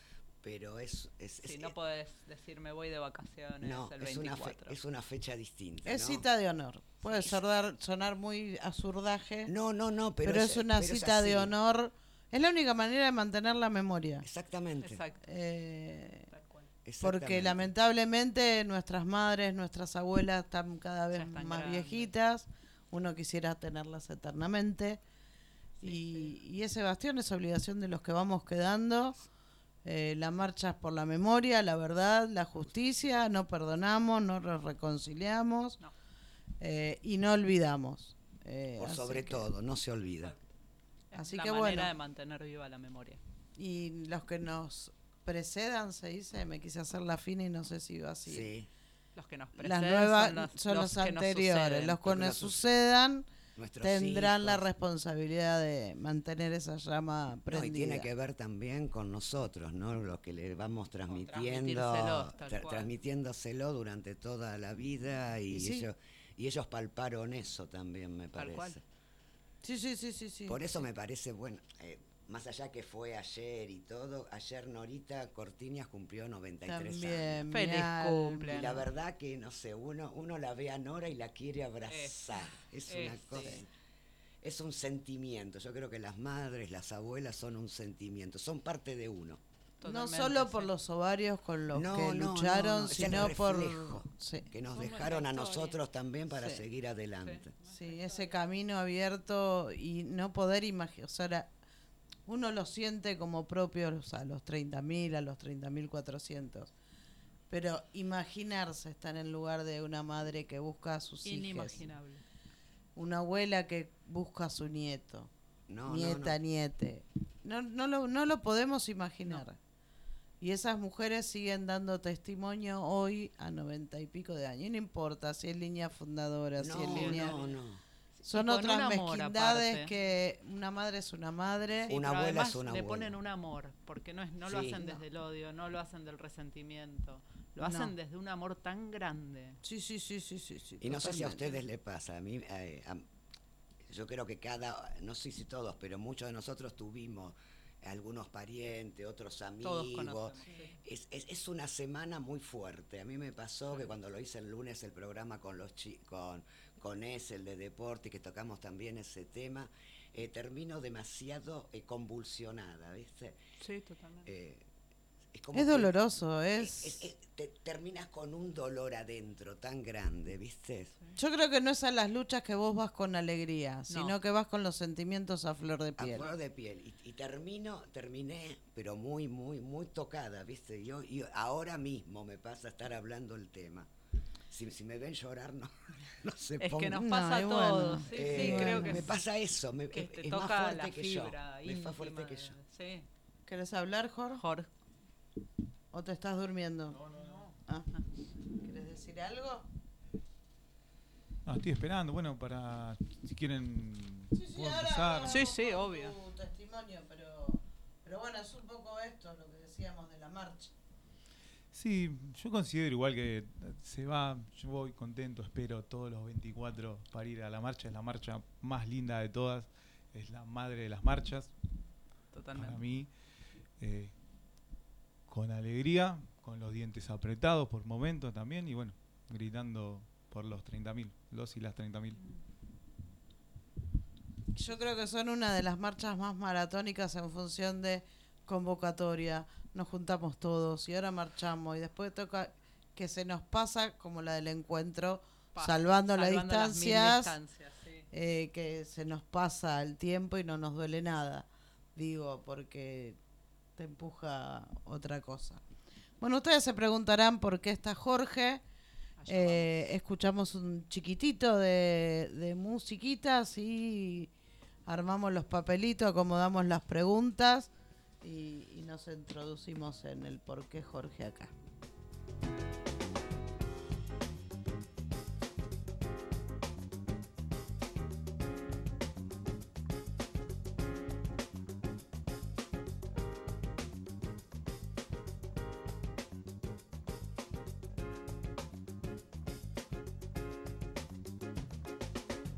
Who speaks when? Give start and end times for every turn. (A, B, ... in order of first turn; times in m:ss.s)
0:00.4-0:01.8 A
0:01.4-0:04.8 B
0:03.6-0:06.2 A
0:05.8-0:09.5 C
0:07.1-0:07.3 A
0:09.5-0:11.5 A
0:10.2-0:14.3 C
0:14.2-0:15.0 A
0:14.8-0:15.2 B
0:15.2-0:16.3 C
0:16.3-0:16.7 B
0:16.8-0:17.7 A
0:17.0-0:25.0 C
0:21.1-0:22.1 B
0:25.8-0:26.4 B
0:25.8-0:29.2 C
0:29.8-0:35.8 C
0:36.6-0:39.5 C
0:38.8-0:40.4 A
0:41.1-0:43.2 B
0:41.1-0:41.9 C
0:43.6-0:48.5 C
0:48.3-0:48.7 A
0:49.2-0:52.0 B
0:49.6-0:53.3 C
0:52.0-0:52.6 A
0:53.6-0:54.7 A
0:53.8-0:58.1 C
0:57.5-1:08.8 A
1:01.1-1:02.9 B
1:05.5-1:05.9 C
1:08.4-1:08.8 B
1:09.6-1:10.6 C
1:10.5-1:17.4 A
1:16.6-1:18.8 C
1:17.5-1:18.8 B
1:18.5-1:23.7 A
1:21.9-1:22.2 B
1:22.9-1:23.6 B
1:24.4-1:29.4 A
1:29.8-1:30.7 B
1:29.8-1:34.5 C
1:31.7-1:37.5 A
1:34.8-1:35.8 B
1:36.3-1:36.6 C
1:37.2-1:38.4 B
1:37.7-1:41.5 C
1:42.3-1:46.7 C
1:47.5-1:51.8 C
1:51.2-1:52.2 B
1:53.0-1:55.3 C
1:55.7-1:56.4 A
1:55.9-1:59.6 C
2:00.4-2:07.4 C
2:06.6-2:07.8 A
2:06.7-2:07.6 B
2:08.2-2:09.9 B
2:08.2-2:11.9 C
2:11.9-2:19.6 B
2:11.9-2:13.1 A
2:14.4-2:14.8 A
2:17.6-2:17.9 C
2:19.6-2:21.6 C
2:20.8-2:23.1 A
2:23.9-2:43.4 A
2:29.6-2:30.8 B
2:43.6-2:44.3 B
2:44.2-2:44.7 A
2:45.3-2:45.9 A
2:45.5-2:47.1 C
2:46.6-2:50.9 A
2:51.2-2:56.3 C
2:53.9-2:54.2 B
2:56.0-3:03.9 A
3:04.5-3:07.1 A
3:06.6-3:09.2 B
3:07.0-3:09.1 C
3:08.0-3:12.6 A
3:09.9-3:13.1 B
3:13.5-3:14.4 C
3:14.3-3:14.7 B
3:15.9-3:17.0 C
3:17.1-3:17.6 B
3:18.6-3:19.7 C
3:21.4-3:25.5 D
3:24.3-3:30.7 C
3:25.2-3:26.2 B
3:31.7-3:41.5 D
3:42.3-3:42.8 B
3:42.5-3:43.1 D
3:43.8-3:44.1 D
3:45.3-3:52.2 D
3:54.6-4:07.4 C
4:05.5-4:08.1 B
4:08.1-4:13.2 C
4:13.8-4:15.6 C
4:16.2-4:18.6 C
4:19.2-4:19.8 B
4:19.3-4:24.3 C
4:24.9-4:27.7 C
4:28.2-4:31.5 C